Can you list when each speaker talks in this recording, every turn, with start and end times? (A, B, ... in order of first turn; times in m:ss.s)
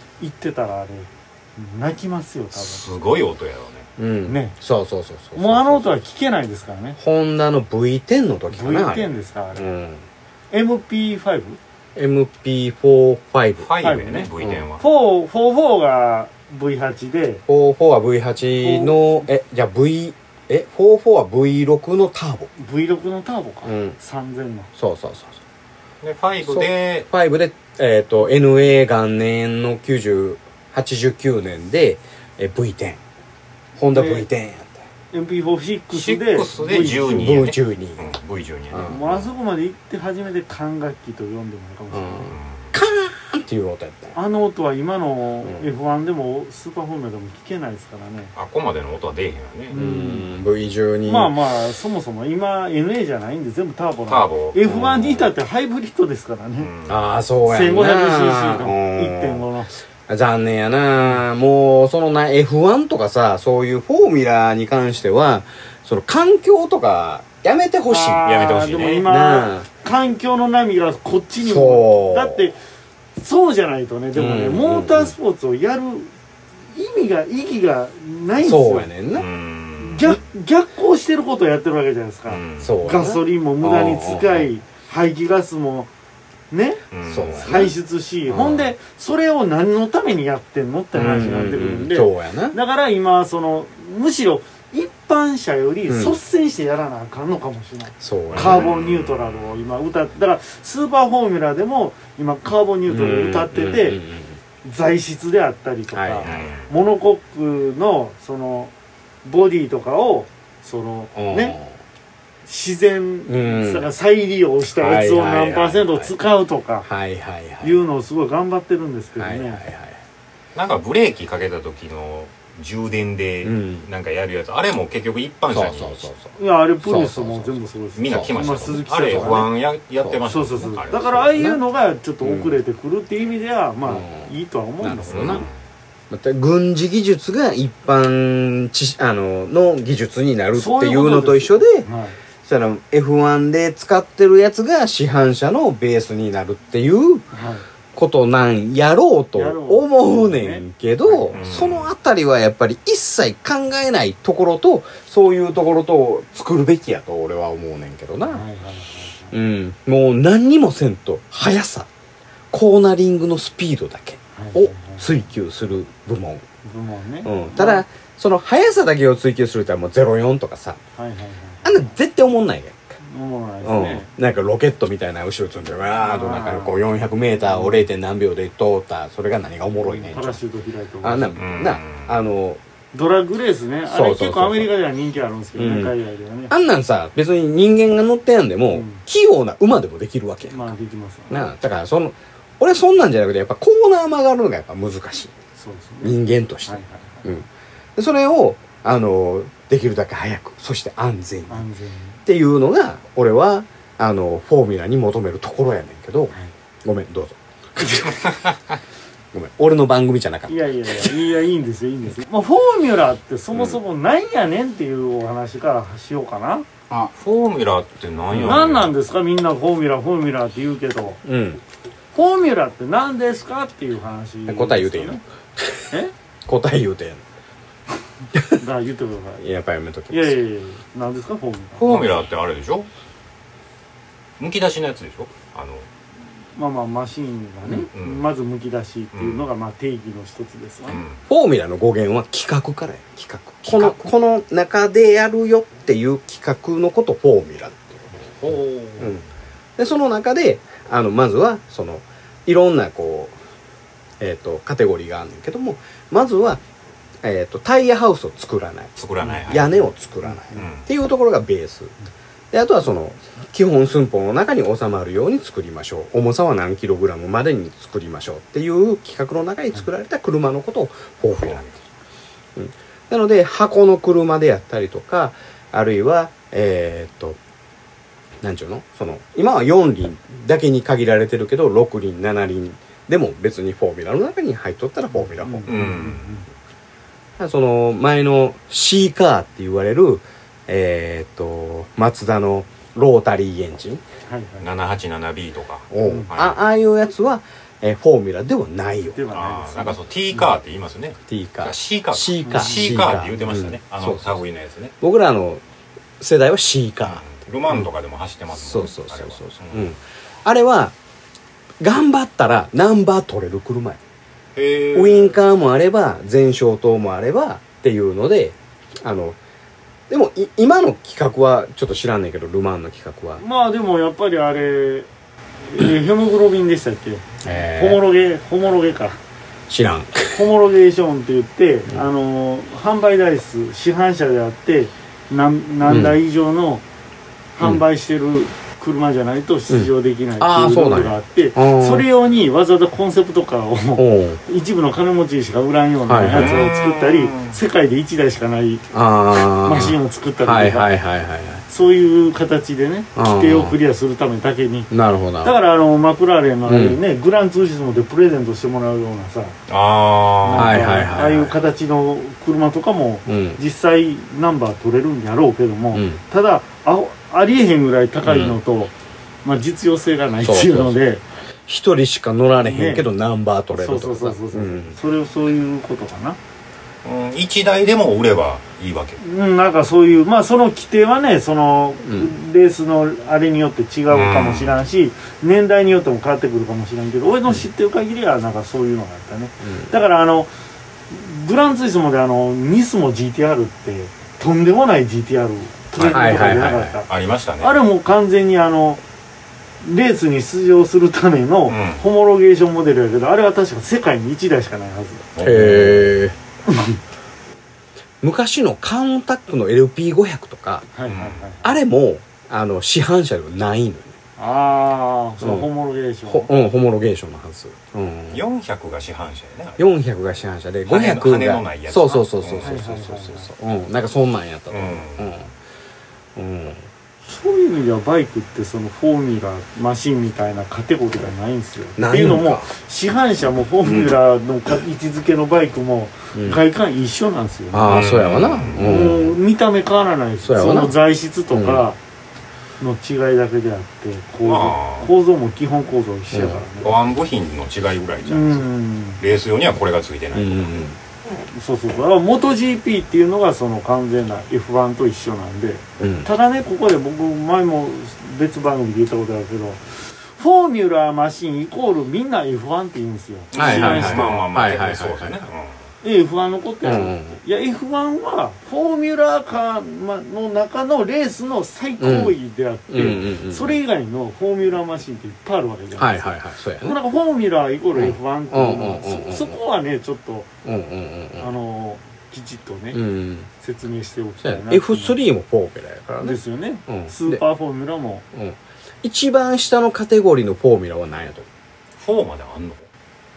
0:00.2-0:02.8 A
0:02.5-0:03.9 B
0:04.0-0:06.0 C
0:04.2-0:04.6 A
0:05.3-0:07.0 A
0:07.0-0:10.0 C
0:08.5-0:09.7 A
0:10.5-0:11.6 A
0:12.0-0:13.7 C
0:13.6-0:14.8 B
0:13.8-0:17.4 A
0:14.4-0:14.7 C
0:17.5-0:22.5 C
0:18.6-0:19.2 A
0:22.6-0:24.7 A
0:23.6-0:24.0 C
0:24.8-0:25.4 C
0:26.0-0:27.1 B
0:26.4-0:33.0 C
0:33.8-0:34.8 C
0:33.9-0:34.3 A
0:35.1-0:37.5 A
0:35.9-0:39.3 B
0:37.0-0:38.0 C
0:38.7-0:39.0 C
0:38.8-0:42.3 A
0:41.9-0:44.2 C
0:42.2-0:42.7 B
0:44.1-0:48.3 A
0:48.3-0:49.8 B
0:49.7-0:50.3 A
0:49.7-0:51.3 C
0:51.0-0:56.7 A
0:54.1-0:54.8 B
0:54.6-0:55.3 C
0:56.6-0:57.2 B
0:56.9-0:59.4 C
0:57.4-0:59.8 A
1:00.1-1:08.5 C
1:07.9-1:12.6 A
1:08.2-1:09.1 B
1:09.0-1:09.7 C
1:11.4-1:12.5 C
1:13.2-1:16.1 A
1:14.1-1:15.1 C
1:16.7-1:18.9 A
1:18.4-1:19.3 C
1:19.1-1:20.2 B
1:19.8-1:25.9 A
1:22.2-1:22.8 B
1:22.6-1:24.5 C
1:26.5-1:44.0 A
1:26.9-1:27.5 B
1:27.0-1:27.7 C
1:28.3-1:28.7 C
1:30.9-1:32.6 C
1:35.9-1:36.2 C
1:38.0-1:38.7 C
1:38.3-1:39.4 B
1:42.8-1:44.4 C
1:44.6-1:48.7 A
1:45.9-1:46.5 C
1:46.2-1:46.7 B
1:49.2-1:51.6 A
1:51.1-1:51.7 C
1:52.4-1:56.9 A
1:53.3-1:53.9 C
1:54.7-1:56.1 C
1:56.8-1:57.8 C
1:57.6-1:59.6 A
1:59.2-2:00.0 C
2:00.5-2:06.1 B
2:03.4-2:03.9 C
2:05.5-2:09.5 C
2:06.4-2:09.5 A
2:08.0-2:11.2 B
2:10.2-2:15.4 A
2:10.9-2:11.6 C
2:12.2-2:12.6 C
2:13.8-2:15.4 C
2:15.1-2:15.6 B
2:16.1-2:21.9 C
2:20.5-2:22.2 A
2:22.4-2:27.2 C
2:27.3-2:27.6 A
2:27.9-2:38.4 C
2:29.3-2:31.4 A
2:31.3-2:31.9 B
2:38.3-2:39.4 A
2:39.3-2:41.9 C
2:42.5-2:46.4 C
2:44.3-2:45.1 A
2:46.6-2:47.8 A
2:47.2-2:50.8 C
2:51.0-2:51.9 A
2:51.6-2:52.8 C
2:53.0-2:54.1 A
2:53.6-3:00.4 C
2:56.0-2:57.8 A
2:59.8-3:01.5 A
3:01.0-3:02.6 C
3:01.4-3:02.2 B
3:02.9-3:06.5 A
3:03.9-3:04.7 C
3:05.6-3:05.9 C
3:06.5-3:10.7 C
3:08.7-3:09.0 A
3:10.5-3:11.5 A
3:11.3-3:15.3 C
3:15.6-3:17.3 A
3:16.0-3:21.6 C
3:21.5-3:22.2 A
3:22.2-3:26.3 C
3:26.8-3:28.2 C
3:29.3-3:31.1 C
3:30.5-3:36.6 A
3:37.1-3:38.9 B
3:38.3-3:38.7 C
3:38.4-3:41.2 A
3:41.2-3:41.6 C
3:42.1-3:45.2 A
3:44.5-3:45.9 C
3:46.4-3:47.2 C
3:48.5-3:49.4 A
3:49.4-3:50.4 C
3:50.1-3:52.1 A
3:51.8-3:52.9 B
3:54.4-3:55.8 B
3:56.5-4:01.0 A
3:57.9-3:58.3 B
3:59.1-3:59.5 B
4:00.9-4:01.2 B
4:01.3-4:08.1 C
4:03.6-4:04.1 B
4:08.4-4:09.3 B
4:09.8-4:13.4 C
4:14.2-4:16.6 C
4:17.2-4:21.9 C
4:19.0-4:19.8 B
4:19.2-4:20.7 A
4:20.5-4:20.9 B
4:22.5-4:31.6 C
4:31.3-4:31.8 B
4:32.6-4:37.4 C
4:38.4-4:46.0 C
4:45.1-4:46.4 A
4:45.7-4:46.4 B
4:47.4-4:54.0 C
4:54.3-4:54.7 A
4:54.6-4:56.6 B
4:55.9-4:59.2 C
4:56.0-4:56.3 A
4:59.1-5:00.6 A
4:59.3-5:04.9 B
5:01.3-5:04.3 C
5:02.4-5:02.9 A
5:05.0-5:05.6 C
5:06.2-5:07.8 C
5:07.0-5:09.9 B
5:08.5-5:10.9 C
5:11.8-5:14.0 C
5:14.6-5:15.4 B
5:14.9-5:19.4 C
5:20.1-5:23.4 C
5:23.4-5:25.1 A
5:25.6-5:29.2 A
5:27.4-5:28.0 C
5:29.7-5:30.5 C
5:30.3-5:36.8 A
5:35.8-5:36.2 C
5:37.5-5:48.8 A
5:39.7-5:42.0 C
5:44.0-5:44.4 C
5:46.0-5:46.7 C
5:46.3-5:47.6 B
5:48.9-5:51.6 C
5:49.3-5:50.9 A
5:51.7-5:54.9 A
5:53.2-5:53.8 C
5:54.9-5:55.5 C
5:55.4-5:59.6 A
5:56.6-5:57.0 C
5:59.7-6:00.8 B
6:00.4-6:08.9 A
6:00.6-6:01.6 C
6:03.2-6:03.6 C
6:05.9-6:06.2 C
6:08.2-6:08.6 C
6:09.4-6:11.2 A
6:10.4-6:11.0 C
6:11.7-6:15.0 C
6:12.6-6:13.1 A
6:13.7-6:16.4 A
6:17.0-6:19.2 B
6:19.2-6:30.5 A
6:22.0-6:22.3 C
6:24.1-6:24.8 B
6:29.6-6:29.9 C
6:31.1-6:39.0 A
6:36.0-6:37.8 B
6:36.1-6:37.0 C
6:39.8-6:45.2 A
6:41.7-6:42.0 B
6:45.3-6:46.1 B
6:45.4-6:46.4 C
6:46.7-6:47.0 A
6:48.2-6:50.9 C
6:50.9-6:51.8 A
6:51.0-6:51.4 B
6:51.6-6:54.1 C
6:54.4-6:56.5 A
6:55.4-6:55.7 C
6:56.3-6:58.4 C
6:58.3-6:59.8 B
6:59.8-7:05.5 C
7:00.8-7:02.8 B
7:02.6-7:03.5 A
7:04.7-7:05.5 B
7:06.4-7:06.9 C
7:07.2-7:18.0 A
7:12.0-7:12.7 C
7:13.8-7:14.1 C
7:16.3-7:16.6 C
7:17.7-7:19.4 C
7:17.8-7:19.1 B
7:18.8-7:22.0 A
7:20.4-7:21.0 C
7:21.5-7:21.8 C
7:22.8-7:26.9 A
7:24.4-7:25.1 B
7:26.3-7:26.6 C
7:26.8-7:28.6 B
7:28.2-7:29.2 A
7:29.2-7:30.8 B
7:30.3-7:31.0 C
7:31.5-7:44.4 A
7:36.0-7:36.3 C
7:43.5-7:45.8 B
7:43.5-7:45.5 C
7:46.0-8:00.5 A
7:46.8-7:47.4 C
7:52.0-7:52.4 C
7:52.9-7:53.8 C
7:56.0-7:57.0 C
7:57.9-7:59.6 C
8:00.6-8:01.5 C
8:01.4-8:03.0 A
8:02.9-8:03.5 C
8:03.6-8:05.2 A
8:04.4-8:06.4 C
8:06.2-8:08.2 A
8:06.9-8:07.4 C
8:08.3-8:11.4 C
8:12.0-8:12.9 B